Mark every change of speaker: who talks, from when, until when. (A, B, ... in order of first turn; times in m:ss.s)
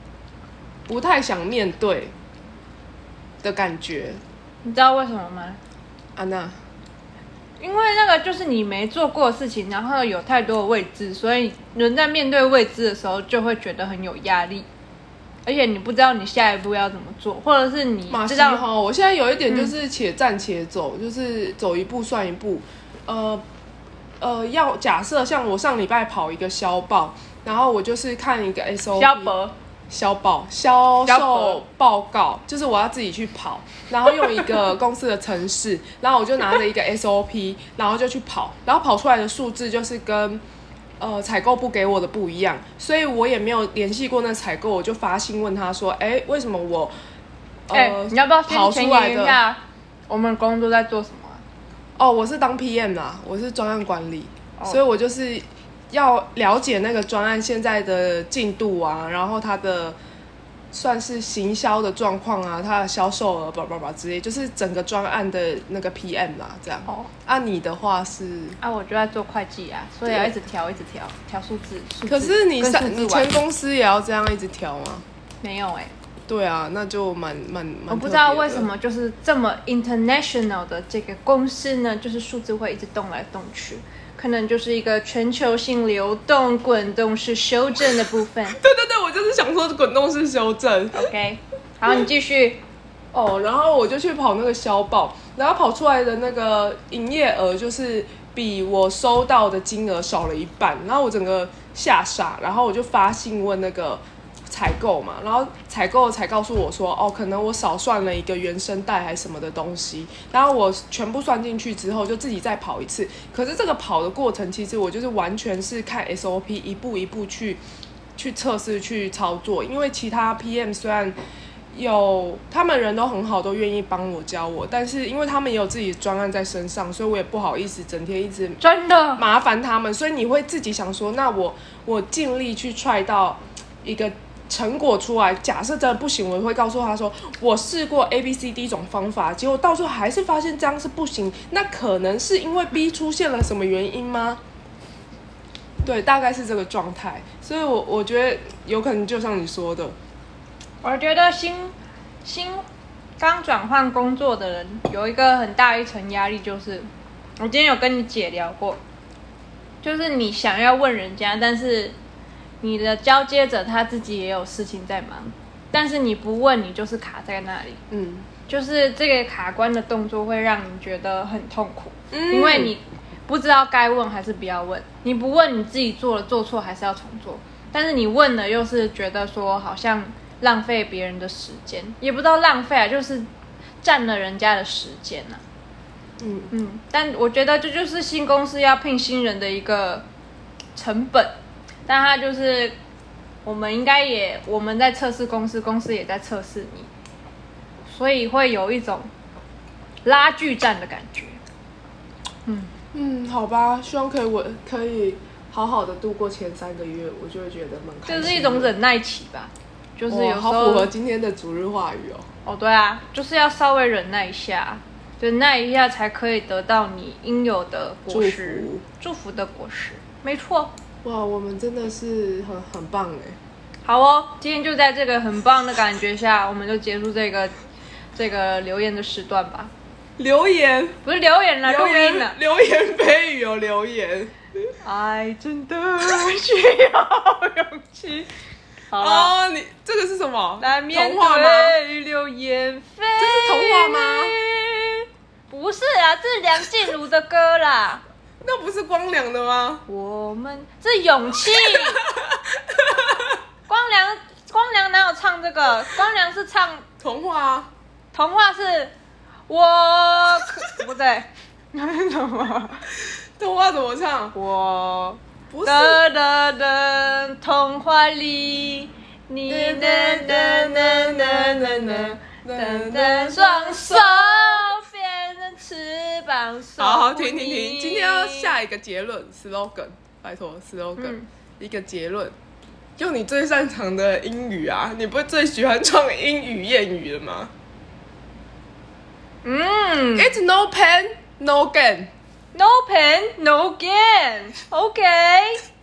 0:00.9-0:02.1 A
0:03.4-0:04.2 A
0:04.6-0:05.6 B
0:06.2-0:06.6 A
0:07.6-0:14.7 B
0:15.4-0:18.6 B
0:18.1-0:23.4 A
0:24.2-0:29.3 A
0:29.0-0:29.6 B
0:29.9-0:40.4 A
0:31.1-0:31.6 B
0:41.0-0:46.9 A
0:47.7-0:49.4 A
0:47.7-0:51.4 B
0:52.0-1:00.0 A
1:00.7-1:08.6 A
1:08.6-1:13.3 B
1:10.1-1:10.3 A
1:12.1-1:15.0 A
1:15.4-1:15.9 B
1:16.3-1:18.7 A
1:17.9-1:28.6 B
1:28.5-1:31.1 A
1:30.9-1:32.6 B
1:33.1-1:57.6 A
1:58.2-2:01.2 A
2:01.7-2:08.6 A
2:08.6-2:09.2 B
2:09.2-2:24.4 A
2:25.8-2:30.0 A
2:30.8-2:32.6 B
2:33.2-2:36.9 B
2:37.4-2:38.8 B
2:39.8-2:42.0 B
2:42.6-2:47.8 B
2:47.9-2:48.3 A
2:48.5-3:03.3 B
2:52.1-2:52.8 A
3:03.8-3:05.4 B
3:06.2-3:06.5 A
3:06.5-3:10.0 B
3:10.8-3:11.4 B
3:11.9-3:12.8 B
3:13.4-3:16.9 B
3:17.9-3:19.1 B
3:20.0-3:21.4 B
3:22.5-3:22.7 B
3:22.9-3:28.7 A
3:28.1-3:30.9 B
3:30.1-3:32.3 A
3:32.4-3:40.7 B
3:38.1-3:38.8 A
3:41.0-3:43.4 A
3:43.8-3:47.5 B
3:48.2-3:49.7 B
3:50.2-3:51.0 A
3:51.0-3:52.4 B
3:51.6-3:54.3 A
3:54.8-3:58.3 B
3:58.9-3:59.3 B
3:59.0-4:01.8 A
4:00.6-4:08.0 B
4:03.2-4:04.4 A
4:08.4-4:09.8 A
4:09.9-4:12.0 B
4:11.7-4:13.2 A
4:13.7-4:16.8 B
4:17.0-4:17.7 A
4:18.1-4:18.9 B
4:19.5-4:22.8 B
4:23.4-4:24.4 A
4:24.4-4:38.6 B
4:25.5-4:26.0 A
4:29.5-4:34.7 A
4:36.8-4:42.4 A
4:41.0-4:41.2 B
4:43.0-4:47.5 A
4:49.4-4:50.4 B
4:50.2-4:52.1 A
4:52.5-4:55.6 B